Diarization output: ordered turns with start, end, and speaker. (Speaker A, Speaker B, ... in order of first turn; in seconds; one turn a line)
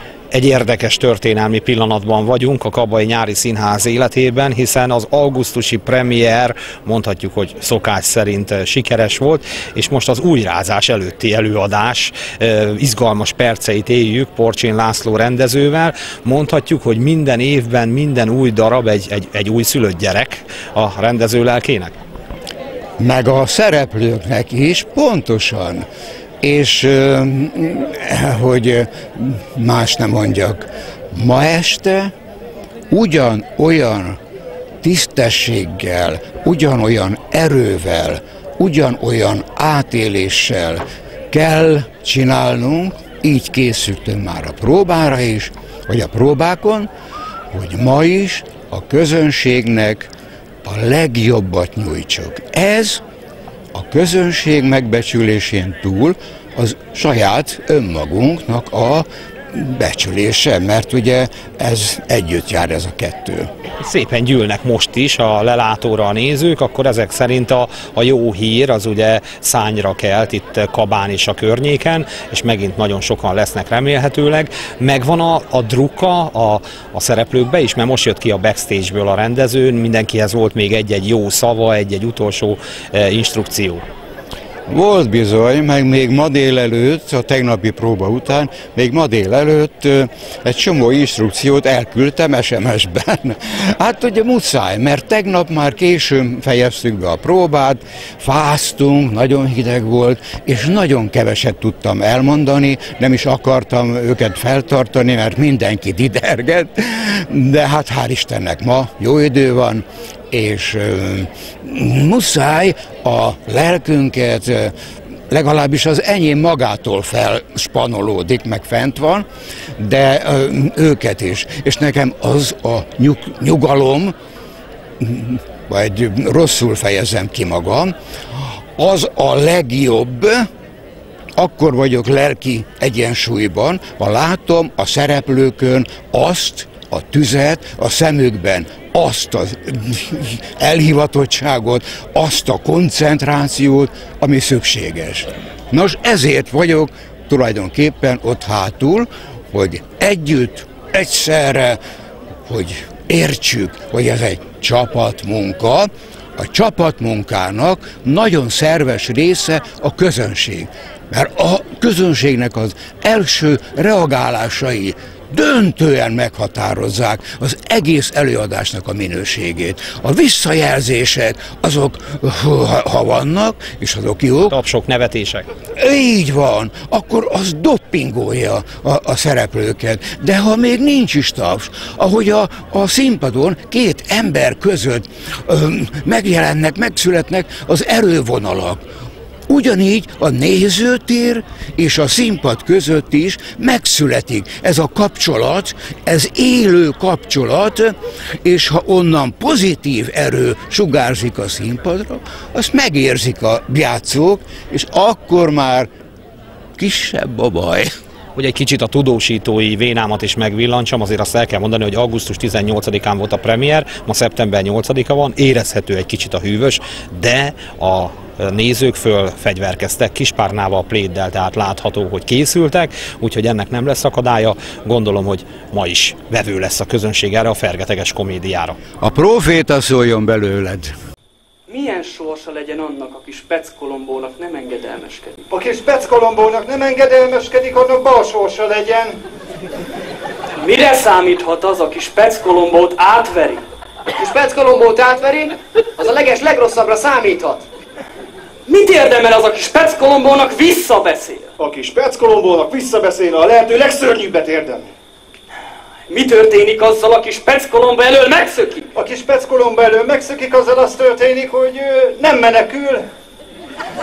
Speaker A: 0.3-21.9
Speaker B: 23.0-25.9
Speaker B: 26.4-32.1
Speaker B: 32.9-34.2
Speaker B: 34.8-46.9
Speaker B: 47.5-50.1
Speaker B: 50.6-53.0
Speaker B: 53.7-63.5
Speaker A: 63.8-83.8
Speaker B: 84.7-114.7
Speaker B: 115.3-119.3
Speaker B: 119.8-124.1
Speaker B: 125.0-130.5
Speaker B: 131.4-151.8
Speaker B: 152.4-174.6
Speaker A: 174.5-175.4
Speaker B: 175.7-188.8
Speaker B: 189.5-205.9
Speaker B: 206.8-207.9
Speaker A: 208.3-228.8
Speaker B: 229.0-230.9
Speaker C: 231.7-235.4
Speaker D: 235.5-239.2
Speaker C: 240.6-243.6
Speaker E: 244.2-247.6
Speaker C: 248.7-251.5
Speaker D: 251.6-254.9
Speaker C: 256.1-258.9
Speaker D: 258.9-263.0